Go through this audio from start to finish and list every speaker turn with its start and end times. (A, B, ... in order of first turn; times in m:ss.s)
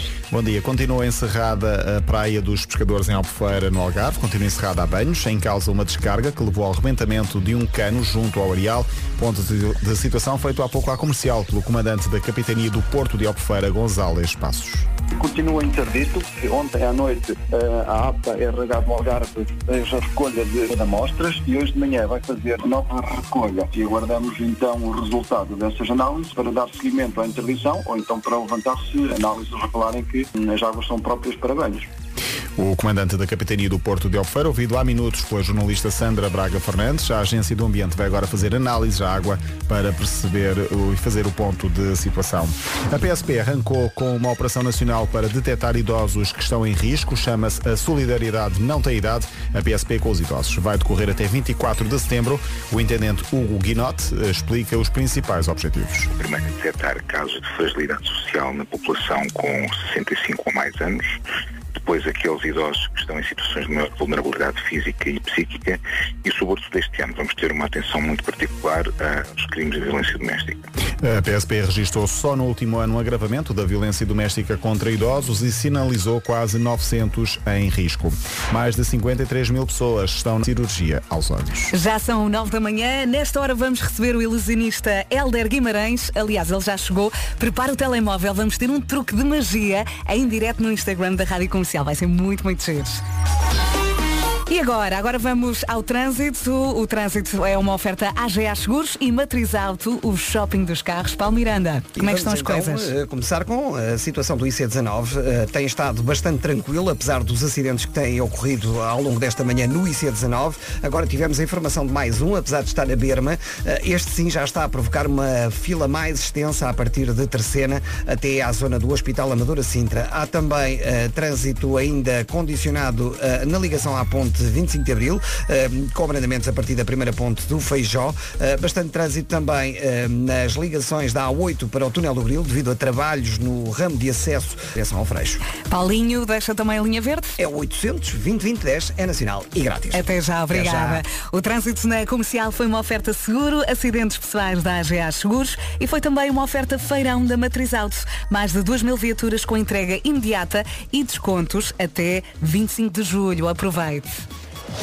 0:00.3-0:14.9 A
0:15.1-0:31.9 B
0:32.6-0:56.1 A
0:56.1-1:01.2 C
1:01.8-1:10.6 C
1:11.0-1:21.7 A
1:21.7-1:33.0 D
1:34.5-1:42.9 D
1:42.0-2:15.4 E
2:15.7-2:17.4 D
2:17.4-2:21.0 E
2:19.9-2:34.2 D